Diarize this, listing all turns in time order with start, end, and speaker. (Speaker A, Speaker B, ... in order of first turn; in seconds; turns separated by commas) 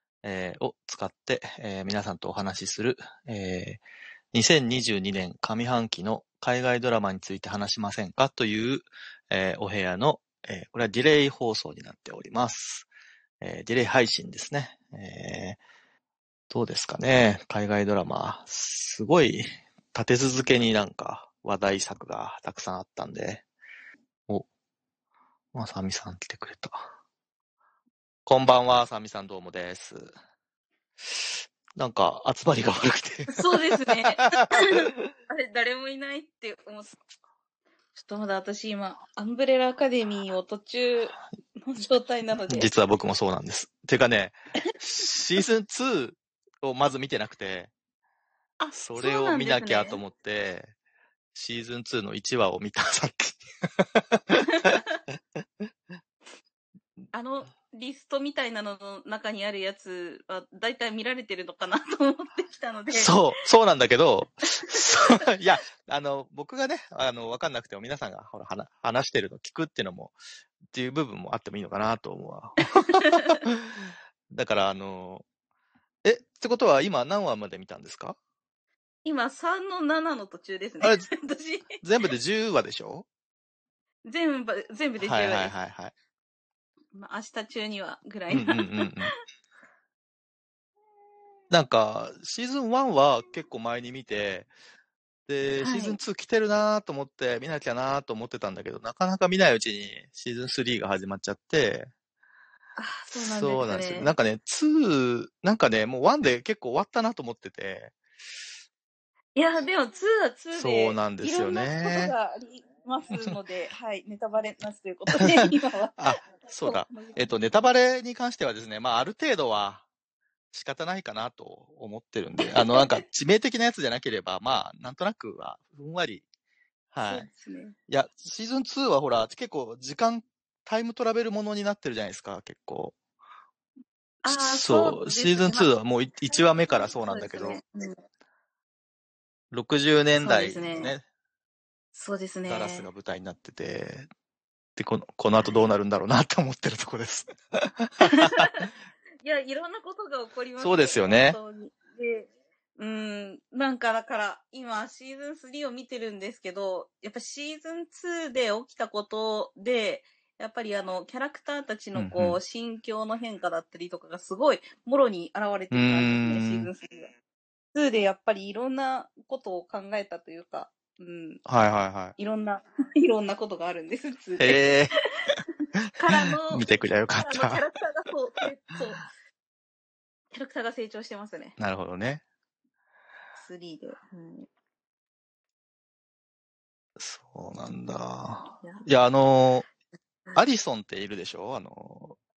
Speaker A: 0.2-12.9, Speaker A: 13.4-15.6, Speaker A: 16.5-23.4, Speaker A: 25.5-26.9, Speaker A: 28.2-30.1, Speaker A: 31.0-34.8, Speaker B: 33.3-36.9, Speaker B: 38.0-42.7, Speaker A: 42.4-47.7, Speaker B: 48.6-50.0, Speaker A: 48.7-50.7, Speaker A: 51.3-54.8, Speaker B: 54.5-54.8, Speaker B: 57.1-63.2, Speaker A: 62.9-70.1, Speaker B: 64.6-65.1, Speaker A: 70.7-73.8, Speaker B: 72.8-73.4, Speaker A: 74.3-75.2, Speaker A: 76.0-78.2, Speaker B: 79.0-81.7, Speaker A: 80.8-81.1, Speaker A: 81.8-83.0, Speaker B: 84.0-85.5, Speaker A: 85.0-85.9, Speaker B: 86.9-89.1, Speaker A: 88.3-89.1, Speaker A: 91.5-94.5, Speaker A: 95.3-101.9, Speaker B: 95.6-96.0, Speaker B: 102.8-104.1, Speaker A: 103.1-107.9, Speaker B: 109.3-116.1, Speaker A: 110.5-112.1, Speaker A: 116.0-119.8, Speaker B: 116.6-117.3, Speaker A: 120.5-126.2, Speaker B: 122.5-122.8, Speaker A: 126.9-127.3, Speaker B: 127.0-127.8, Speaker A: 127.9-132.9, Speaker B: 134.2-135.7, Speaker A: 134.2-137.6, Speaker B: 136.7-137.9, Speaker A: 139.5-141.0, Speaker B: 140.2-140.9, Speaker B: 141.9-142.9, Speaker A: 142.4-144.1, Speaker A: 144.8-148.7, Speaker B: 148.0-148.7, Speaker B: 149.2-167.1, Speaker A: 150.6-151.4, Speaker A: 161.9-162.4, Speaker A: 165.7-166.7, Speaker B: 167.7-171.4, Speaker A: 171.4-172.2, Speaker B: 172.2-175.4, Speaker A: 174.4-175.0, Speaker B: 175.9-179.1, Speaker A: 176.1-177.6, Speaker B: 180.3-181.5, Speaker A: 181.6-182.2, Speaker B: 183.3-184.5, Speaker A: 187.0-189.7, Speaker A: 190.3-192.2